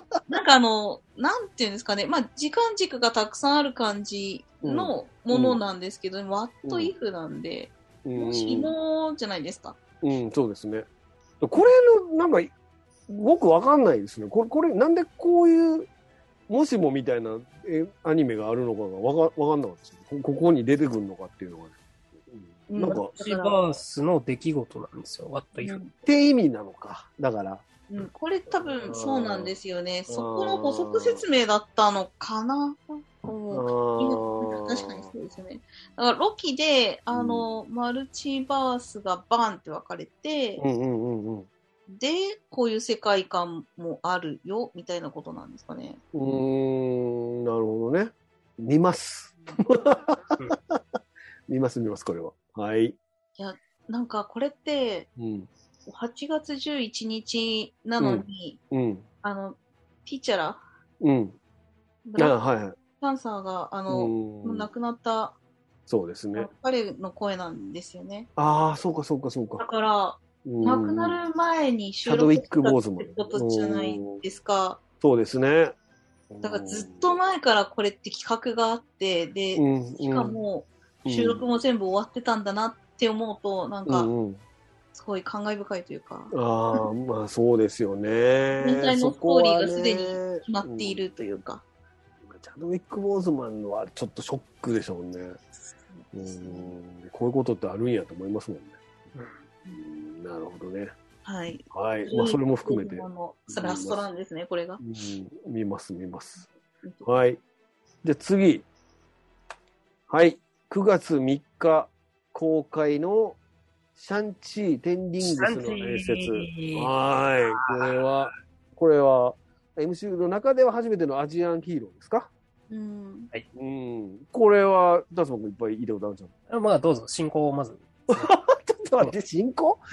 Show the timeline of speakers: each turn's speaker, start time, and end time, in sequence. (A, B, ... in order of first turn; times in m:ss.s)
0:00.3-0:09.8 A
0:04.6-0:05.6 B
0:06.6-0:06.9 B
0:08.0-0:08.7 B
0:10.0-0:10.9 B
0:11.4-0:12.5 B
0:13.1-0:15.9 B
0:16.5-0:23.1 B
0:22.7-0:23.6 A
0:22.8-0:25.8 C
0:25.6-0:25.9 A
0:26.0-0:27.6 B
0:27.9-0:40.6 A
0:28.6-0:29.5 B
0:30.1-0:31.2 B
0:33.5-0:35.1 B
0:37.1-0:37.5 B
0:40.6-0:41.5 B
0:41.9-0:46.0 A
0:46.1-0:50.8 B
0:51.5-0:53.0 B
0:53.4-0:55.1 A
0:55.2-0:55.5 B
0:55.9-0:58.6 A
0:58.0-0:59.1 B
0:59.2-1:00.6 A
1:01.0-1:01.4 B
1:02.1-1:02.4 A
1:02.2-1:02.8 B
1:03.0-1:05.4 A
1:03.9-1:04.7 B
1:05.9-1:06.5 B
1:06.4-1:08.3 A
1:08.4-1:09.6 B
1:09.6-1:14.8 A
1:10.4-1:11.2 B
1:12.1-1:14.2 B
1:15.0-1:15.8 B
1:16.3-1:17.2 B
1:16.4-1:24.1 A
1:19.6-1:20.4 B
1:21.0-1:21.4 B
1:23.9-1:24.4 B
1:24.9-1:26.9 A
1:26.3-1:31.1 B
1:28.6-1:31.6 A
1:32.2-1:35.4 B
1:35.9-1:36.8 A
1:36.1-1:38.8 B
1:39.8-1:40.9 B
1:41.2-1:44.8 A
1:41.7-1:44.1 B
1:44.8-1:46.5 B
1:47.0-1:47.4 B
1:48.0-1:48.7 B
1:50.1-1:53.4 B
1:54.0-2:02.3 B
1:55.2-1:56.9 C
1:57.5-1:58.0 C
2:02.7-2:03.3 A
2:03.5-2:06.3 B
2:06.5-2:08.3 C
2:08.1-2:09.8 B